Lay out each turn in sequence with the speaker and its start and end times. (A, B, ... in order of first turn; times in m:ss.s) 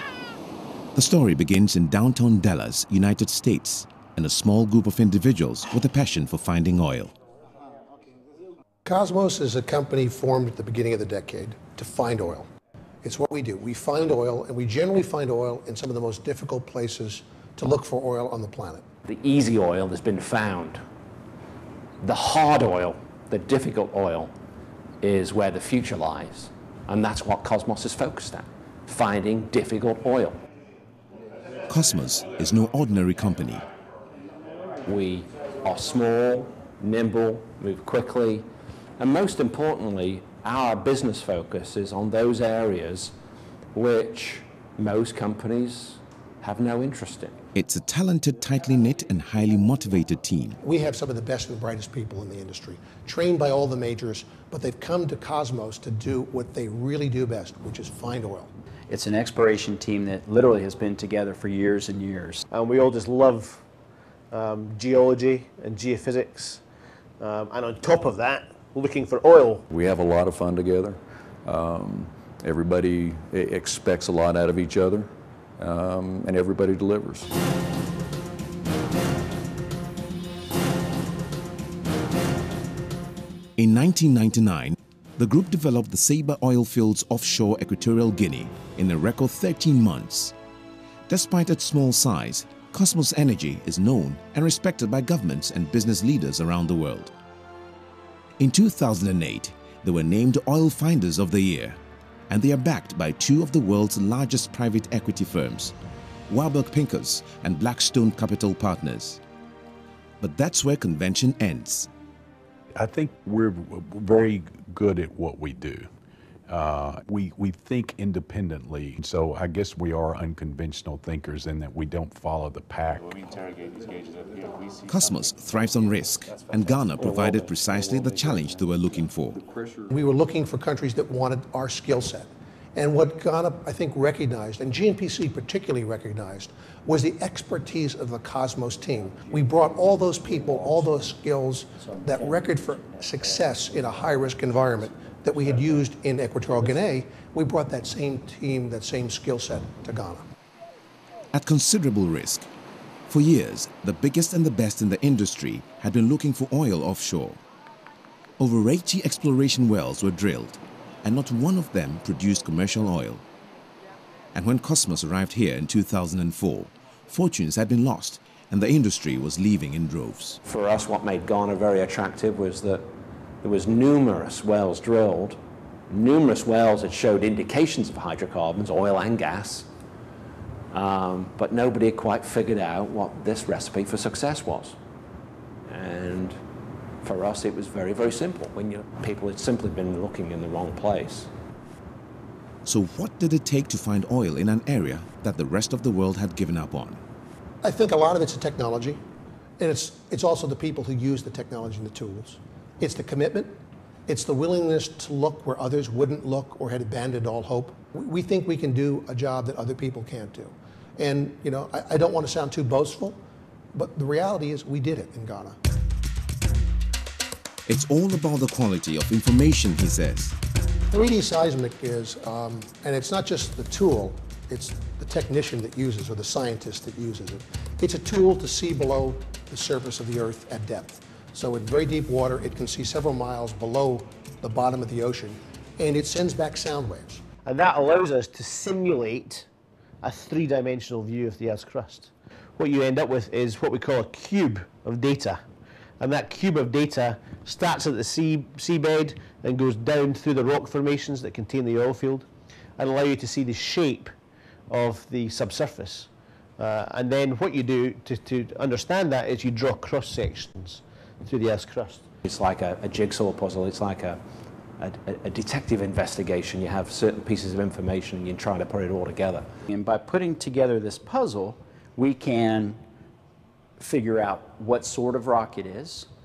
0:00.9-0:07.1 A
0:08.8-0:12.5 B
0:13.0-0:18.8 B
0:19.0-0:20.8 C
0:22.0-0:24.3 C
0:25.0-0:30.4 C
0:31.7-0:33.6 A
0:34.8-0:38.5 C
0:39.0-0:43.1 C
0:43.7-0:47.4 C
0:47.5-0:50.6 A
0:50.6-0:58.5 B
0:58.9-1:02.4 D
1:02.5-1:03.6 E
1:04.3-1:06.6 E
1:07.2-1:09.6 E
1:09.7-1:17.3 F
1:23.6-1:30.3 A
1:31.1-1:37.1 A
1:38.4-1:41.8 A
1:42.3-1:45.7 A
1:46.3-1:49.2 A
1:50.2-1:51.9 A
1:52.7-1:55.9 G
1:56.5-2:03.5 G
2:04.8-2:09.4 A
2:09.6-2:09.8 F
2:09.9-2:30.2 B
2:31.3-2:32.5 A
2:33.1-2:37.4 A
2:38.4-2:43.2 A
2:44.3-2:50.4 A
2:50.4-2:52.9 C
2:53.4-2:55.4 C
2:55.9-2:59.7 C
3:00.7-3:04.8 C
3:05.7-3:06.4 C
3:07.0-3:11.3 C
3:12.6-3:17.0 A
3:17.6-3:19.0 B
3:19.6-3:23.5 B
3:24.1-3:33.2 B
3:33.7-3:35.6 B
3:37.7-3:40.4 A
3:40.9-3:57.2 B
3:57.4-3:59.5 E
4:00.0-4:05.4 E
4:06.0-4:14.1 E
4:14.7-4:22.0 E
4:22.2-4:24.2 C
4:24.8-4:29.5 C
4:29.7-4:32.8 D
4:33.8-4:36.1 D